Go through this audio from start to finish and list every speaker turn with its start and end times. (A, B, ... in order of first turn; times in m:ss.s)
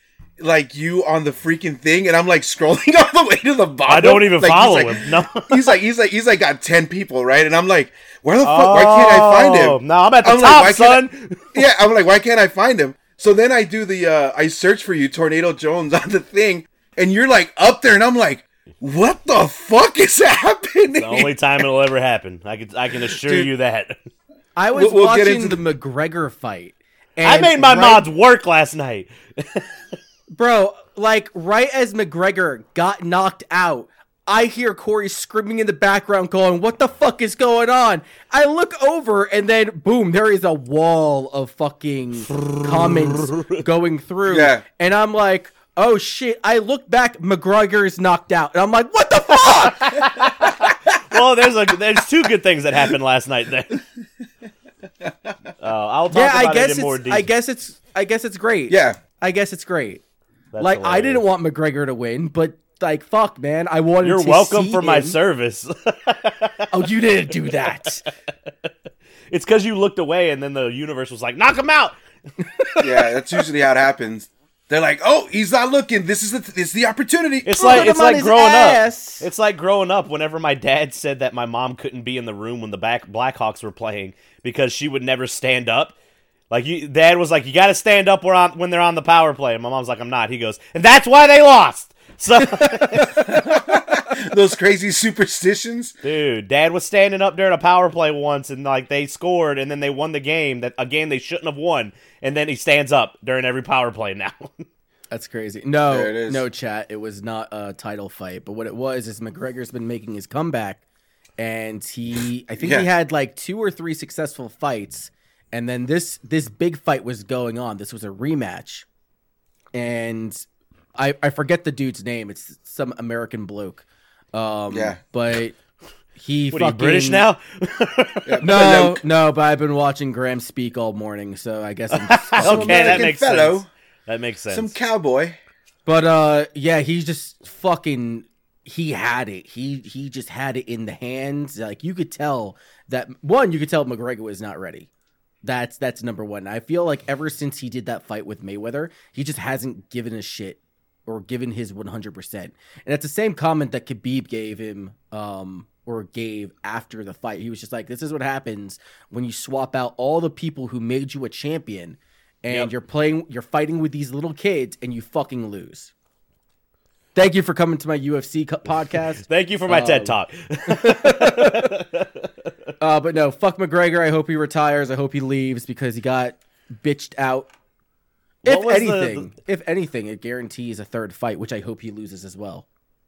0:00.4-0:21.7 A
0:03.9-0:05.7 B
0:08.4-0:11.6 B
0:21.0-0:24.0 B
0:22.9-0:23.5 A
0:24.6-0:28.1 C
0:24.7-0:25.6 A
0:27.2-0:29.7 B
0:30.3-0:50.0 C
0:42.4-0:43.5 B
0:44.3-0:44.6 A
0:49.4-0:53.8 B
0:55.0-0:55.3 A
0:55.6-0:57.3 B
0:56.1-1:00.0 C
0:58.7-0:59.0 A
1:00.5-1:01.2 B
1:00.6-1:05.2 C
1:04.0-1:07.9 B
1:06.7-1:08.0 C
1:09.3-1:12.0 B
1:12.6-1:12.8 C
1:12.8-1:17.9 A
1:17.5-1:25.9 B
1:17.5-1:19.2 C
1:26.5-1:33.3 B
1:32.6-1:33.1 C
1:33.1-1:35.9 A
1:36.0-1:44.6 B
1:45.1-1:50.8 C
1:45.9-1:46.4 A
1:51.4-1:58.8 C
1:52.6-1:52.9 A
1:59.7-2:00.4 C
2:01.0-2:05.6 C
2:04.7-2:05.0 A
2:06.2-2:07.2 C
2:06.5-2:08.4 B
2:08.2-2:09.0 A
2:08.4-2:13.1 C
2:11.9-2:14.7 B
2:12.4-2:13.7 A
2:14.5-2:15.4 A
2:15.8-2:24.9 C
2:25.4-2:45.9 C
2:47.1-2:50.1 C
2:49.2-2:52.5 B
2:50.6-2:51.7 C
2:52.8-2:57.5 C
2:58.4-3:02.6 C
2:58.4-2:59.3 B